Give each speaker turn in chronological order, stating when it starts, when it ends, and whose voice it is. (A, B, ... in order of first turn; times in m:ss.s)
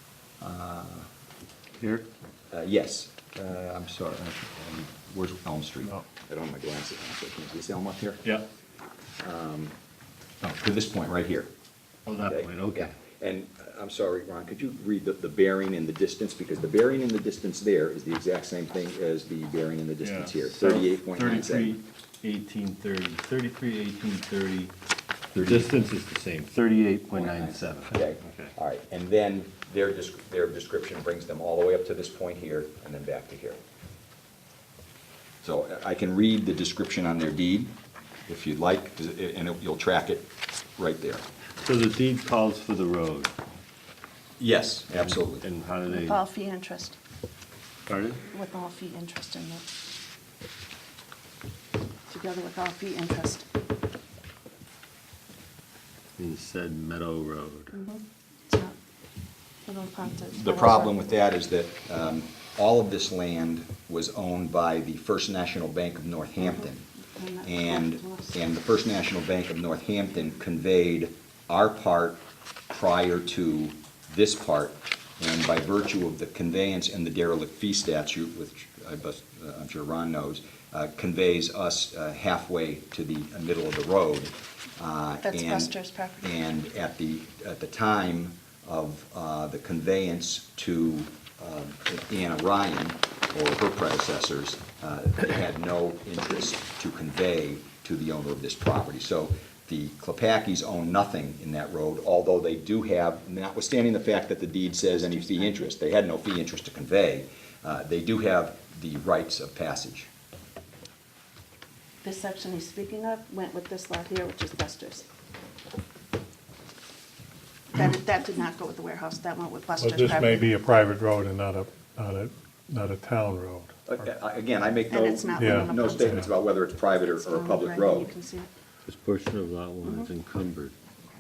0:00.4-0:01.1 A
0:01.8-0:02.1 B
0:02.5-0:08.2 A
0:09.2-0:09.8 A
0:10.4-0:11.5 A
0:12.1-0:12.9 B
0:12.2-0:21.7 A
0:20.0-0:24.7 B
0:25.3-0:25.7 A
0:25.4-0:28.5 B
0:27.1-0:33.6 A
0:35.4-0:37.7 A
0:38.3-0:41.2 A
0:41.6-0:43.3 B
0:44.4-0:45.4 A
0:45.0-0:46.2 B
0:45.9-0:47.0 C
0:47.9-0:48.2 B
0:48.3-0:49.6 C
0:52.1-0:53.5 C
0:56.2-0:57.8 B
0:57.7-0:58.8 C
0:59.7-1:01.0 C
1:00.3-1:06.9 A
1:06.4-1:08.4 C
1:07.4-1:50.1 A
1:25.2-1:26.3 C
1:44.9-1:45.7 C
1:52.0-1:55.1 C
1:57.7-2:00.5 C
1:59.8-2:04.1 D
2:03.9-2:08.1 A
2:04.9-2:06.3 C
2:05.4-2:06.3 D
2:07.1-2:08.5 C
2:08.9-2:10.7 B
2:09.8-2:10.1 C